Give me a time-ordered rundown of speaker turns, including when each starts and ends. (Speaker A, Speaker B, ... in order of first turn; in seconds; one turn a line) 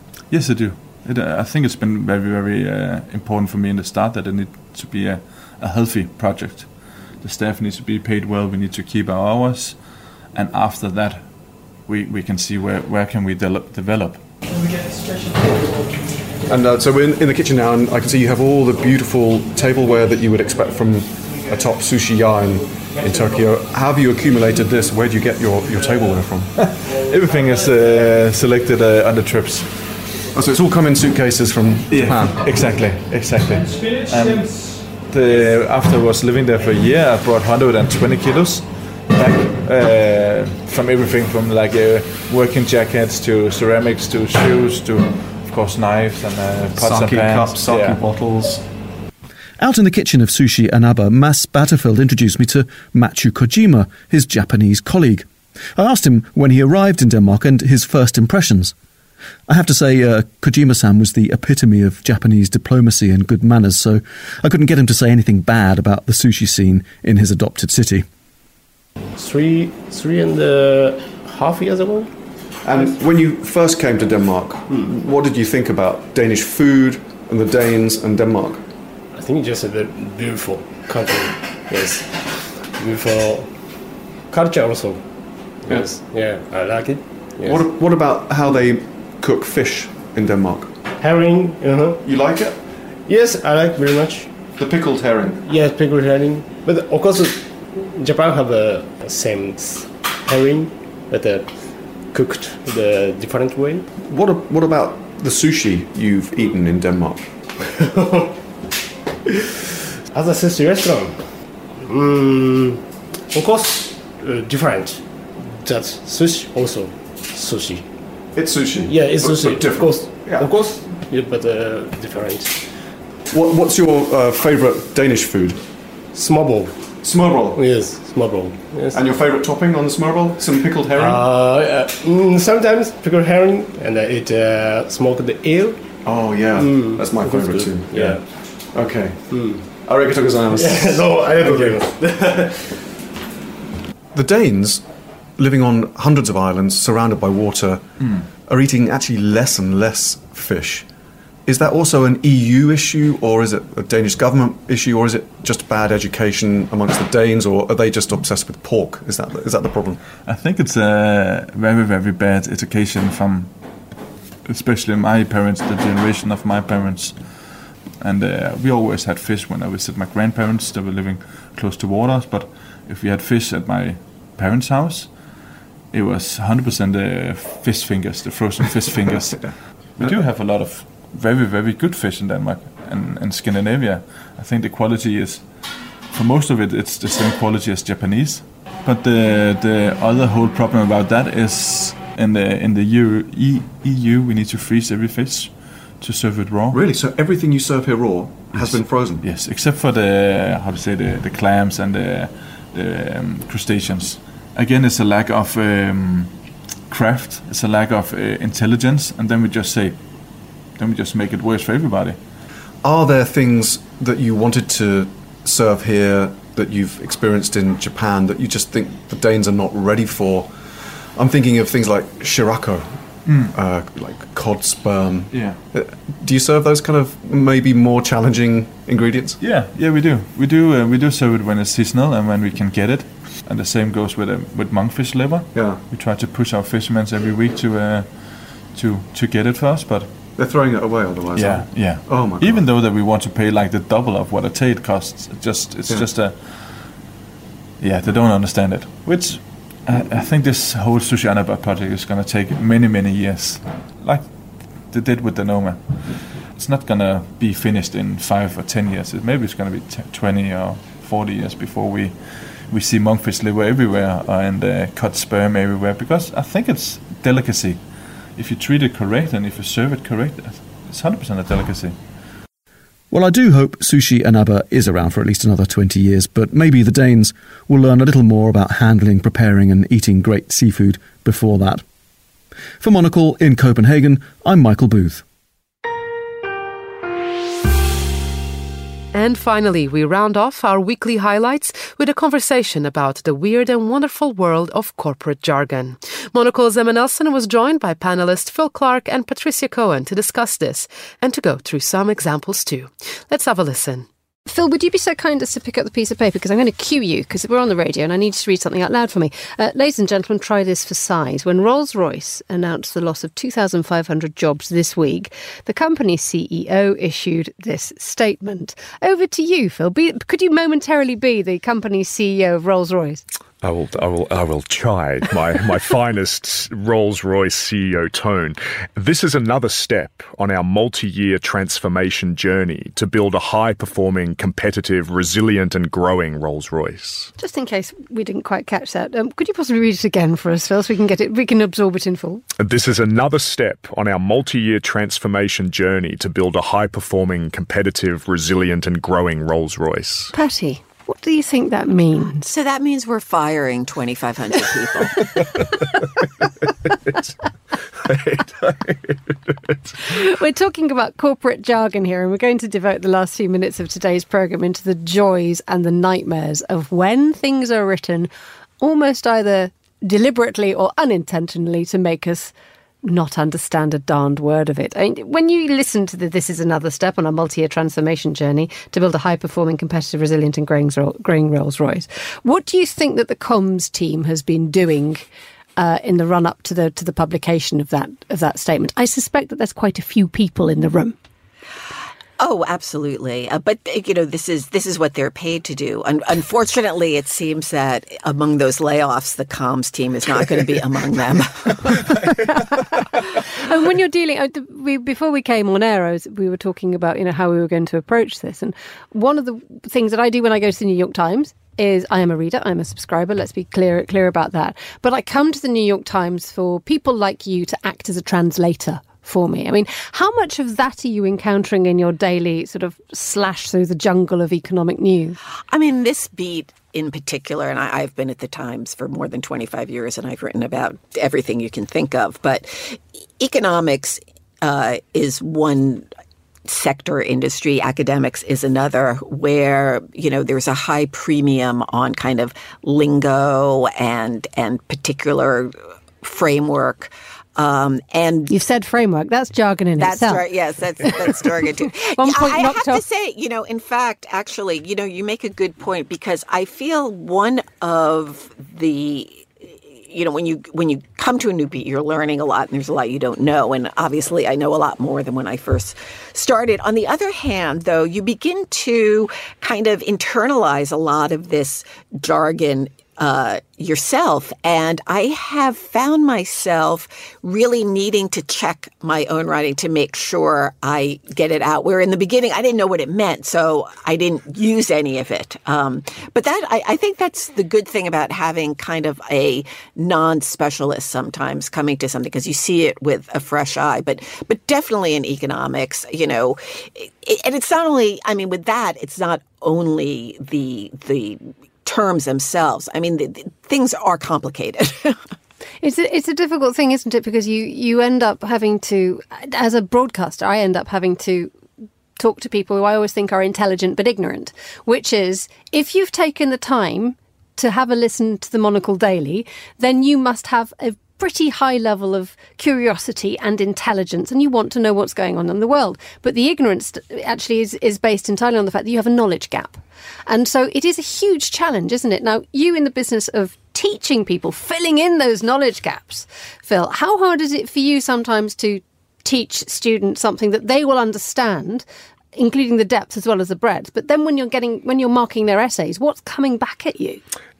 Speaker A: 0.3-14.3
Speaker B: 16.4-26.5
Speaker A: 26.6-30.0
Speaker B: 30.3-32.7
Speaker A: 31.9-48.0
Speaker B: 46.7-48.7
Speaker C: 49.6-58.7
Speaker C: 59.5-68.0
Speaker D: 69.1-72.1
Speaker B: 72.6-78.7
Speaker D: 72.7-73.0
Speaker D: 74.7-75.0
Speaker D: 79.1-83.7
Speaker D: 84.3-87.8
Speaker B: 85.7-85.9
Speaker B: 87.4-90.7
Speaker D: 91.0-92.1
Speaker B: 92.0-92.6
Speaker D: 93.0-94.5
Speaker B: 94.5-95.4
Speaker D: 95.4-103.9
Speaker B: 104.0-107.4
Speaker D: 107.7-108.4
Speaker D: 110.1-117.9
Speaker B: 118.3-120.5
Speaker D: 118.8-122.7
Speaker B: 123.3-125.7
Speaker D: 126.1-126.9
Speaker B: 127.0-127.6
Speaker D: 127.5-129.1
Speaker B: 128.9-131.3
Speaker D: 130.9-138.5
Speaker B: 136.0-141.9
Speaker D: 139.3-139.7
Speaker D: 140.5-142.8
Speaker B: 144.1-150.9
Speaker A: 148.0-148.3
Speaker B: 151.4-160.0
Speaker A: 160.2-163.6
Speaker A: 164.4-175.2
Speaker A: 175.9-196.8
Speaker B: 196.7-199.2
Speaker A: 198.5-206.3
Speaker A: 206.9-210.0
Speaker A: 210.8-212.2
Speaker B: 212.8-229.4
Speaker A: 223.2-223.6
Speaker A: 225.3-225.6
Speaker A: 229.4-240.2
Speaker B: 235.5-235.8
Speaker B: 240.3-242.7
Speaker A: 241.3-247.0
Speaker A: 247.8-272.0
Speaker C: 273.1-281.8
Speaker C: 282.8-285.2
Speaker E: 289.1-304.1
Speaker F: 304.4-323.2
Speaker G: 323.6-337.3
Speaker F: 337.4-342.4
Speaker G: 342.6-350.3
Speaker F: 350.3-352.5
Speaker H: 352.4-355.4
Speaker G: 358.1-359.1
Speaker F: 360.0-391.2
Speaker H: 392.4-402.0
Speaker F: 402.5-425.4
Speaker H: 425.7-436.1
Speaker H: 436.7-448.5
Speaker F: 448.5-453.0
Speaker H: 450.0-505.2
Speaker F: 505.8-511.5
Speaker F: 512.2-547.2